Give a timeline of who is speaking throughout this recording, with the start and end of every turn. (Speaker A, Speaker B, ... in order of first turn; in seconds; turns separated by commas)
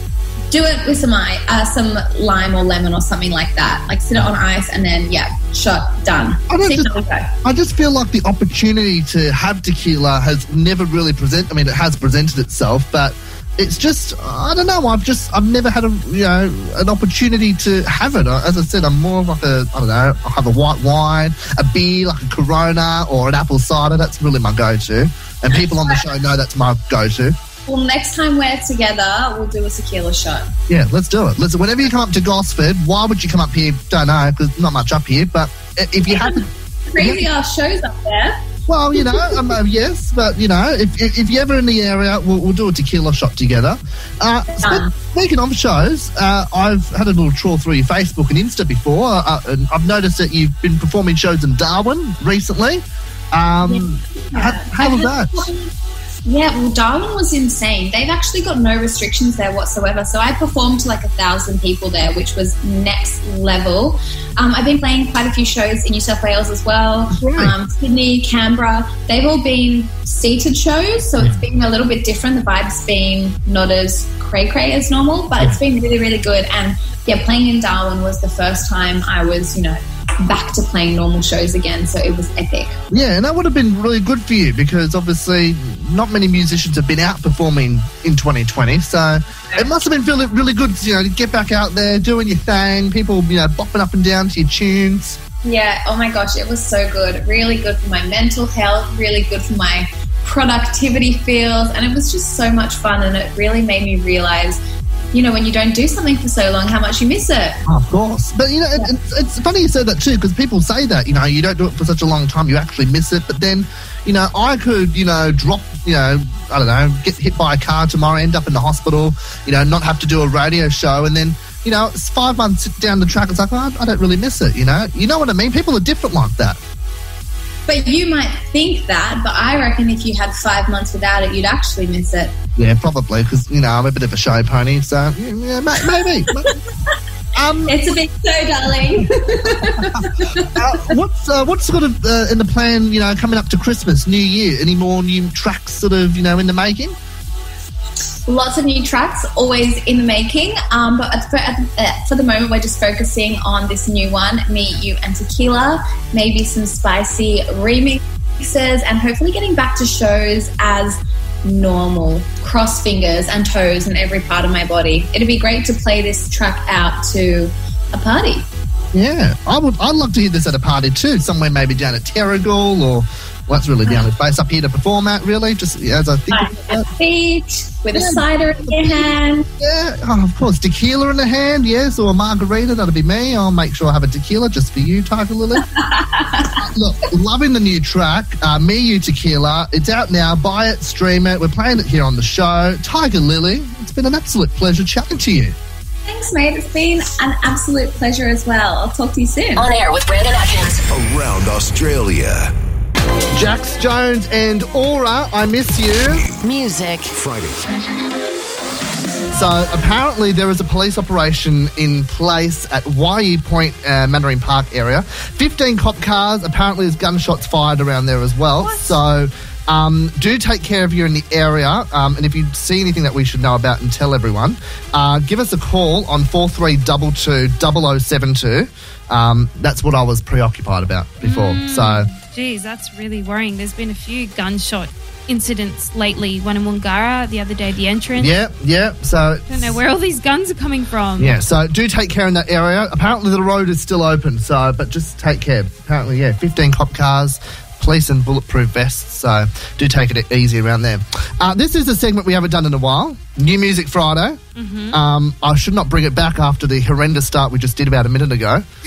Speaker A: 0.5-7.3, Speaker B: 6.5-27.4, Speaker A: 25.5-26.0, Speaker A: 27.7-30.5, Speaker B: 30.7-37.3, Speaker A: 36.1-38.4, Speaker B: 38.7-55.5, Speaker A: 39.0-39.4, Speaker A: 44.5-44.9, Speaker A: 53.6-55.7, Speaker A: 56.3-82.8, Speaker B: 67.1-67.5, Speaker B: 82.9-95.2, Speaker A: 95.4-104.6, Speaker A: 105.1-107.6, Speaker B: 107.7-126.6, Speaker A: 127.7-132.4, Speaker B: 132.6-136.6, Speaker A: 136.3-136.6, Speaker B: 137.3-137.8, Speaker A: 137.7-141.0, Speaker B: 139.2-147.0, Speaker A: 148.3-168.5, Speaker B: 168.9-176.9, Speaker A: 176.3-179.5, Speaker B: 177.9-185.7, Speaker A: 185.8-186.5, Speaker B: 186.5-195.6, Speaker A: 196.1-199.7, Speaker C: 199.6-200.8, Speaker D: 200.9-202.5, Speaker B: 203.3-206.3, Speaker D: 206.1-206.5, Speaker C: 206.4-207.2, Speaker D: 207.1-207.7, Speaker B: 209.3-232.1, Speaker E: 218.6-219.0, Speaker E: 231.2-238.3, Speaker B: 238.2-239.8, Speaker E: 239.5-241.4, Speaker B: 241.2-254.4, Speaker E: 254.6-255.0, Speaker B: 254.9-258.6